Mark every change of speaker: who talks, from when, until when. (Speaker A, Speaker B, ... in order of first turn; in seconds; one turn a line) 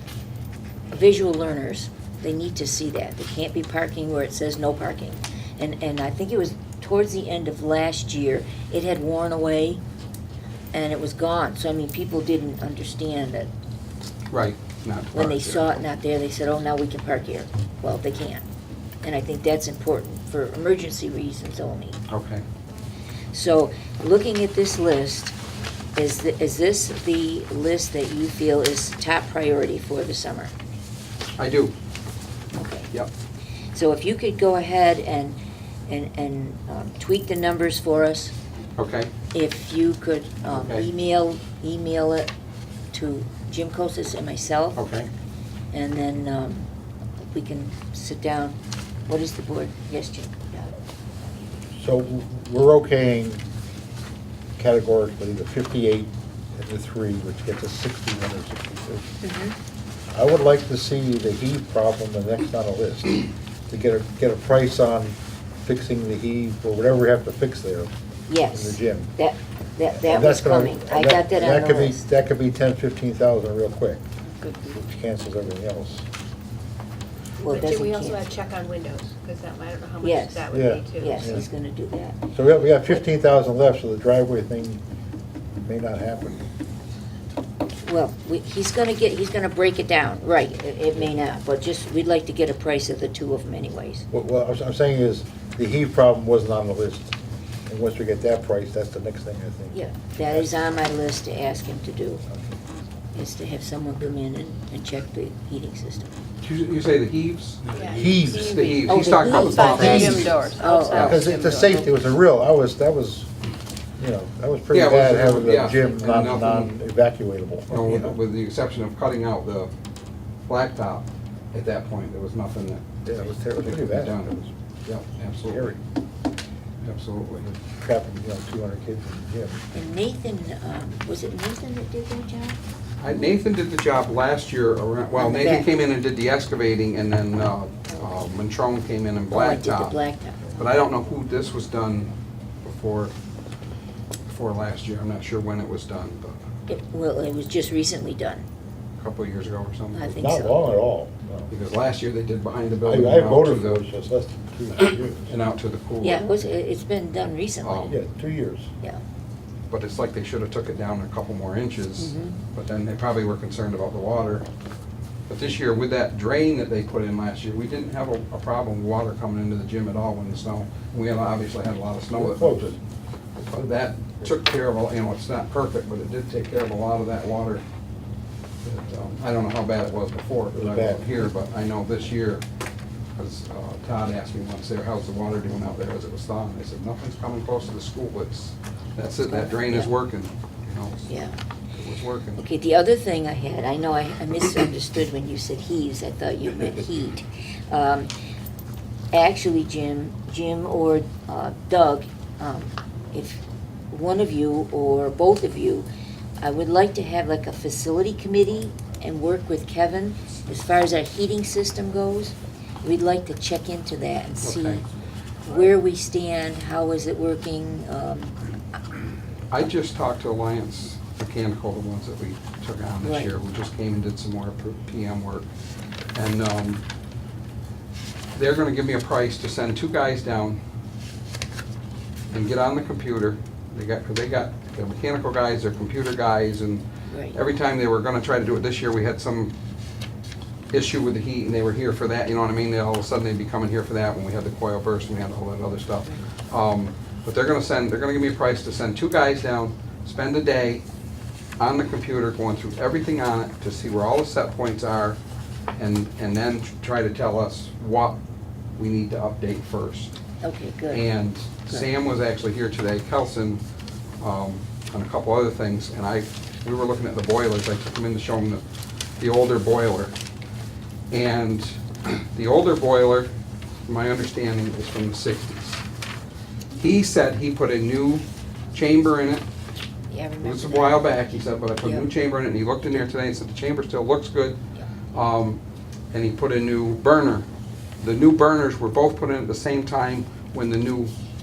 Speaker A: 0.9-9.8
Speaker A: 10.7-13.5
Speaker B: 14.3-15.7
Speaker A: 15.1-18.4
Speaker A: 19.0-22.0
Speaker B: 22.1-22.4
Speaker A: 23.3-25.4
Speaker A: 25.9-30.5
Speaker B: 31.4-31.7
Speaker A: 32.5-32.9
Speaker A: 33.7-38.3
Speaker B: 38.8-39.1
Speaker A: 39.3-42.3
Speaker B: 40.5-40.9
Speaker A: 42.9-44.9
Speaker B: 44.8-45.1
Speaker A: 45.7-46.7
Speaker A: 47.2-48.6
Speaker A: 49.1-50.8
Speaker C: 51.8-53.4
Speaker C: 54.6-59.1
Speaker A: 59.2-59.5
Speaker C: 60.1-67.9
Speaker A: 68.3-72.0
Speaker C: 68.5-69.1
Speaker C: 69.9-74.0
Speaker C: 74.7-76.0
Speaker A: 77.4-78.3
Speaker D: 77.5-81.4
Speaker A: 80.0-82.2
Speaker C: 80.5-81.5
Speaker C: 82.3-84.8
Speaker C: 85.6-86.4
Speaker A: 87.8-94.0
Speaker C: 94.1-97.1
Speaker C: 97.7-99.8
Speaker A: 99.7-102.2
Speaker C: 100.3-100.5
Speaker C: 102.3-102.6
Speaker A: 103.1-106.2
Speaker B: 106.4-110.4
Speaker D: 107.7-111.9
Speaker C: 107.9-108.6
Speaker A: 108.5-111.2
Speaker C: 109.7-110.3
Speaker C: 110.9-113.3
Speaker B: 110.9-111.3
Speaker C: 114.0-118.2
Speaker B: 114.7-116.7
Speaker B: 117.7-119.7
Speaker B: 120.5-125.8
Speaker C: 123.0-124.2
Speaker C: 125.5-125.8
Speaker B: 126.8-127.5
Speaker C: 127.6-129.6
Speaker A: 129.7-132.6
Speaker B: 133.0-140.0
Speaker A: 135.2-135.7
Speaker A: 139.3-140.6
Speaker B: 140.6-142.1
Speaker B: 142.6-143.1
Speaker B: 144.3-146.4
Speaker A: 146.7-148.4
Speaker B: 149.0-150.1
Speaker A: 149.9-150.6
Speaker C: 150.1-151.5
Speaker B: 151.5-153.8
Speaker C: 152.8-155.3
Speaker B: 154.8-156.3
Speaker A: 156.0-157.9
Speaker B: 157.6-157.9
Speaker C: 157.9-158.7
Speaker B: 159.7-164.4
Speaker A: 162.0-162.4
Speaker B: 165.3-172.8
Speaker C: 172.2-172.8
Speaker B: 173.4-177.6
Speaker B: 178.6-182.4
Speaker C: 180.5-181.1
Speaker B: 183.2-191.1
Speaker A: 189.2-189.9
Speaker A: 191.1-191.4
Speaker B: 191.7-192.4
Speaker A: 192.4-198.1
Speaker A: 199.1-205.9
Speaker A: 206.4-214.8
Speaker B: 214.4-214.8
Speaker A: 215.4-218.4
Speaker B: 219.5-225.5
Speaker A: 223.0-223.3
Speaker B: 226.1-226.8
Speaker B: 228.3-230.6
Speaker B: 232.3-239.5
Speaker A: 237.1-237.3
Speaker B: 240.7-250.8
Speaker B: 251.6-255.2
Speaker B: 255.8-258.2
Speaker B: 258.8-260.1
Speaker A: 260.4-261.1
Speaker B: 260.9-263.6
Speaker B: 264.2-268.6
Speaker B: 269.2-270.1
Speaker B: 271.1-273.3
Speaker B: 273.9-275.8
Speaker B: 276.8-279.4
Speaker A: 280.1-281.2
Speaker B: 280.4-284.6
Speaker A: 281.8-282.1
Speaker B: 285.1-285.6
Speaker B: 286.1-287.4
Speaker B: 288.0-291.1